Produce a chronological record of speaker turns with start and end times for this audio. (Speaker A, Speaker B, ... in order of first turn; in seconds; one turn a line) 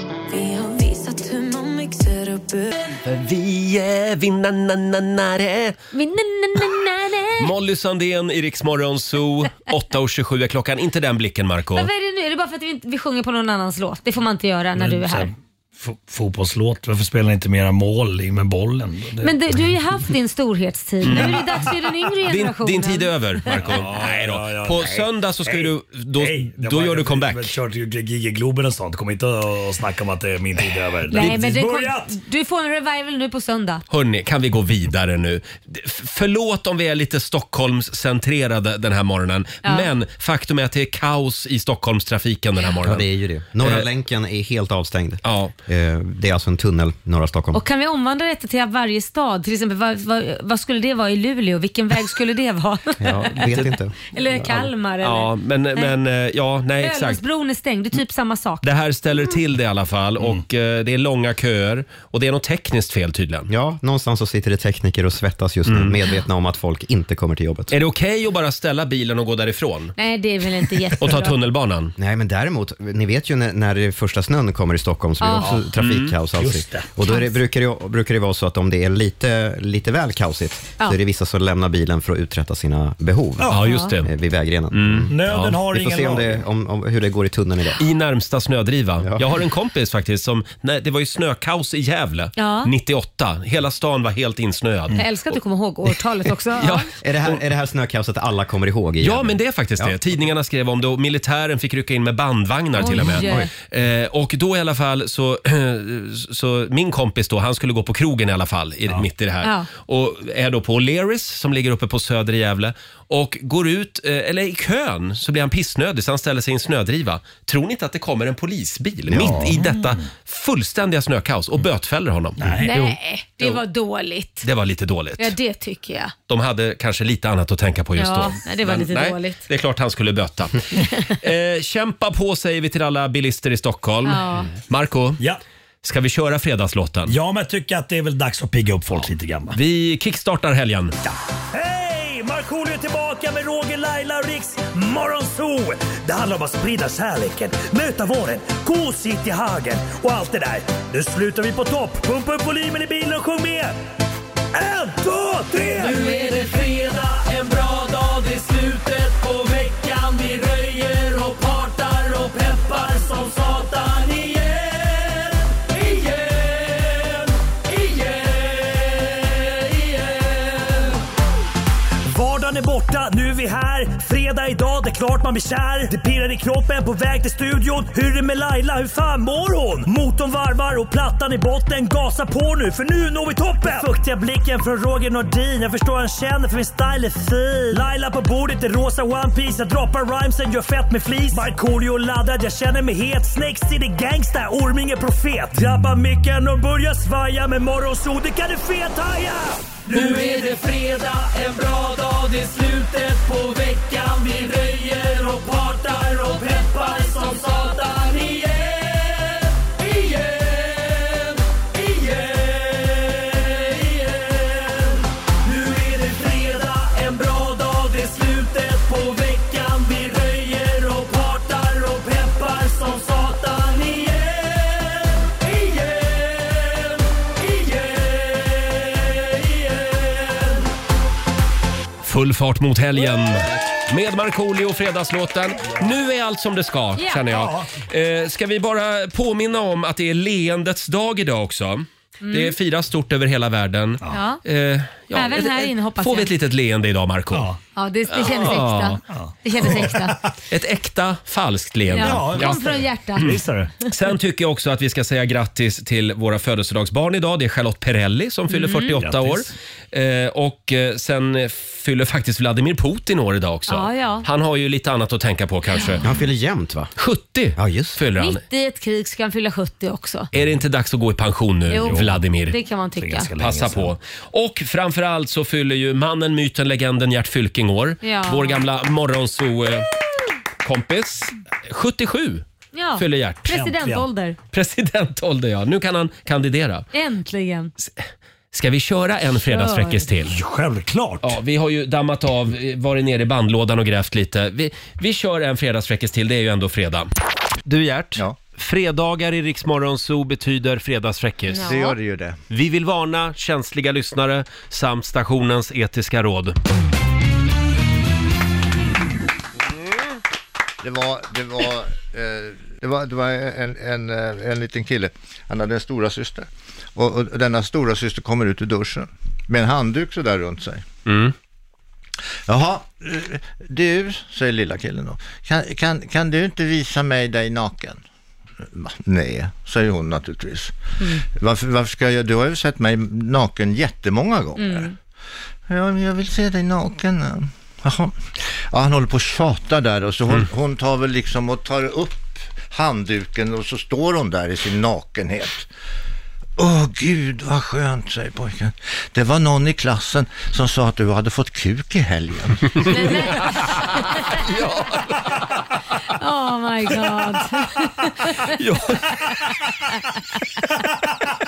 Speaker A: 0.3-2.7
Speaker B: 3.0-5.8
Speaker C: 5.9-7.5
Speaker B: 7.4-11.9
Speaker C: 11.8-15.3
Speaker D: 14.8-19.4
Speaker C: 19.2-23.8
Speaker B: 21.0-21.4
Speaker D: 21.1-21.7
Speaker B: 22.2-27.5
Speaker D: 23.6-32.2
Speaker C: 31.1-33.8
Speaker B: 33.9-43.1
Speaker C: 39.6-39.9
Speaker E: 42.8-47.6
Speaker B: 43.6-43.9
Speaker B: 45.2-45.5
Speaker C: 47.5-53.4
Speaker E: 53.0-54.7
Speaker C: 54.1-55.9
Speaker B: 55.0-57.2
Speaker C: 56.8-58.6
Speaker B: 58.6-63.5
Speaker E: 63.5-67.7
Speaker B: 65.7-66.0
Speaker B: 67.7-69.9
Speaker C: 70.0-71.4
Speaker B: 71.0-71.9
Speaker E: 72.0-85.2
Speaker C: 75.2-75.5
Speaker B: 75.8-76.1
Speaker D: 76.4-76.9
Speaker D: 83.4-83.7
Speaker B: 83.5-84.1
Speaker C: 83.6-83.9
Speaker B: 84.7-85.6
Speaker D: 85.1-86.4
Speaker E: 85.7-87.8
Speaker B: 87.8-95.4
Speaker E: 89.0-89.3
Speaker C: 92.4-92.7
Speaker C: 95.0-96.9
Speaker B: 96.6-97.4
Speaker E: 97.0-100.0
Speaker B: 99.0-122.8
Speaker C: 102.8-103.5
Speaker E: 103.2-103.5
Speaker C: 109.4-109.7
Speaker E: 119.1-119.5
Speaker D: 119.1-119.8
Speaker D: 122.4-122.9
Speaker C: 122.6-124.5
Speaker B: 124.4-125.3
Speaker C: 125.2-126.1
Speaker B: 126.3-135.2
Speaker C: 128.0-129.4
Speaker C: 134.1-134.5
Speaker B: 135.8-137.2
Speaker D: 137.1-139.6
Speaker B: 139.5-140.9
Speaker D: 141.1-153.8
Speaker D: 154.5-156.1
Speaker F: 155.8-171.0
Speaker D: 172.1-200.2
Speaker F: 199.9-230.7
Speaker B: 232.0-247.5
Speaker C: 237.0-237.2
Speaker D: 237.3-237.8
Speaker C: 242.2-242.6
Speaker C: 244.1-244.4
Speaker C: 245.1-246.3
Speaker D: 247.3-247.6
Speaker C: 247.8-250.2
Speaker B: 248.1-249.0
Speaker D: 249.1-250.4
Speaker B: 249.6-249.9
Speaker B: 250.5-266.0
Speaker C: 251.9-253.3
Speaker D: 251.9-253.7
Speaker C: 258.5-259.0
Speaker D: 259.0-259.5
Speaker C: 263.7-264.3
Speaker C: 265.7-266.0
Speaker E: 266.0-266.9
Speaker B: 267.0-268.4
Speaker E: 267.6-268.0
Speaker C: 268.2-270.3
Speaker B: 270.3-272.6
Speaker C: 271.7-273.3
Speaker D: 271.8-272.2
Speaker D: 273.0-273.9
Speaker B: 273.4-279.9
Speaker C: 278.0-278.6
Speaker B: 280.6-282.4
Speaker C: 282.7-284.4
Speaker B: 283.0-283.5
Speaker D: 283.5-284.1
Speaker B: 284.5-286.9
Speaker C: 286.9-287.7
Speaker B: 288.5-290.4
Speaker C: 289.5-290.1
Speaker D: 290.2-291.4
Speaker B: 291.2-297.1
Speaker B: 297.7-301.8
Speaker G: 301.6-302.4
Speaker B: 302.5-306.6
Speaker G: 310.8-320.9
Speaker B: 321.1-321.3
Speaker G: 322.5-328.0
Speaker G: 328.6-330.8
Speaker C: 331.0-331.2
Speaker G: 331.3-334.9
Speaker C: 334.6-334.9
Speaker G: 335.7-345.7
Speaker G: 346.6-353.2
Speaker C: 352.9-354.4
Speaker B: 353.8-355.5
Speaker C: 356.1-358.6
Speaker B: 358.5-359.2
Speaker D: 360.8-361.1